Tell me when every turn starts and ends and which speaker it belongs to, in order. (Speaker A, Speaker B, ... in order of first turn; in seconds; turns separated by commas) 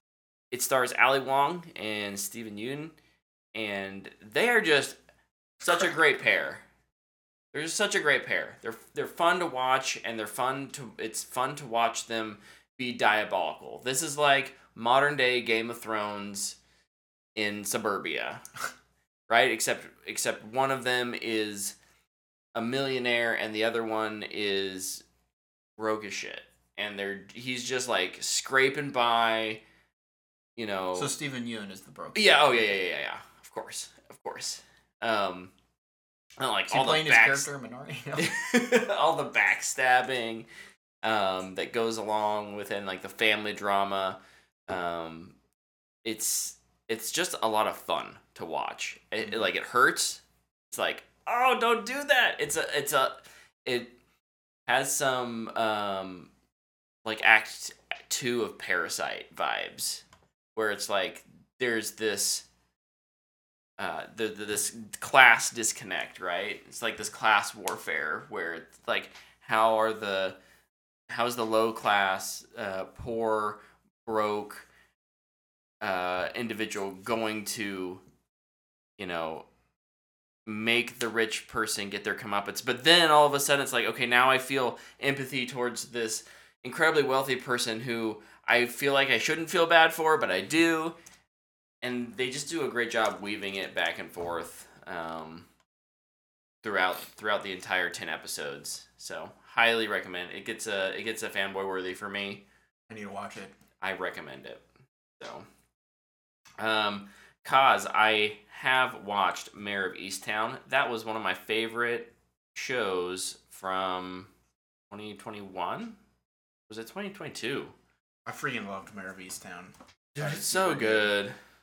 Speaker A: 0.5-2.9, Speaker A: 3.5-5.0, Speaker A: 5.6-6.6, Speaker A: 7.5-16.6, Speaker A: 17.4-18.4, Speaker A: 19.3-21.8, Speaker A: 22.5-25.0, Speaker A: 25.8-29.6, Speaker A: 30.6-31.1, Speaker B: 30.9-32.8, Speaker A: 32.1-35.5, Speaker A: 36.4-37.5, Speaker B: 36.7-38.4, Speaker A: 38.1-40.5, Speaker A: 41.0-45.3, Speaker A: 46.0-53.9, Speaker A: 54.7-56.3, Speaker A: 57.0-60.0, Speaker A: 60.5-62.4, Speaker A: 63.8-70.4, Speaker A: 71.1-74.7, Speaker A: 75.8-78.0, Speaker A: 79.0-79.5, Speaker A: 80.5-91.0, Speaker A: 91.8-95.5, Speaker A: 96.6-102.4, Speaker B: 102.9-103.5, Speaker A: 103.8-104.6, Speaker A: 105.2-105.5, Speaker A: 106.6-114.3, Speaker A: 114.9-116.0, Speaker A: 116.7-117.7, Speaker B: 118.2-121.1, Speaker A: 120.2-121.3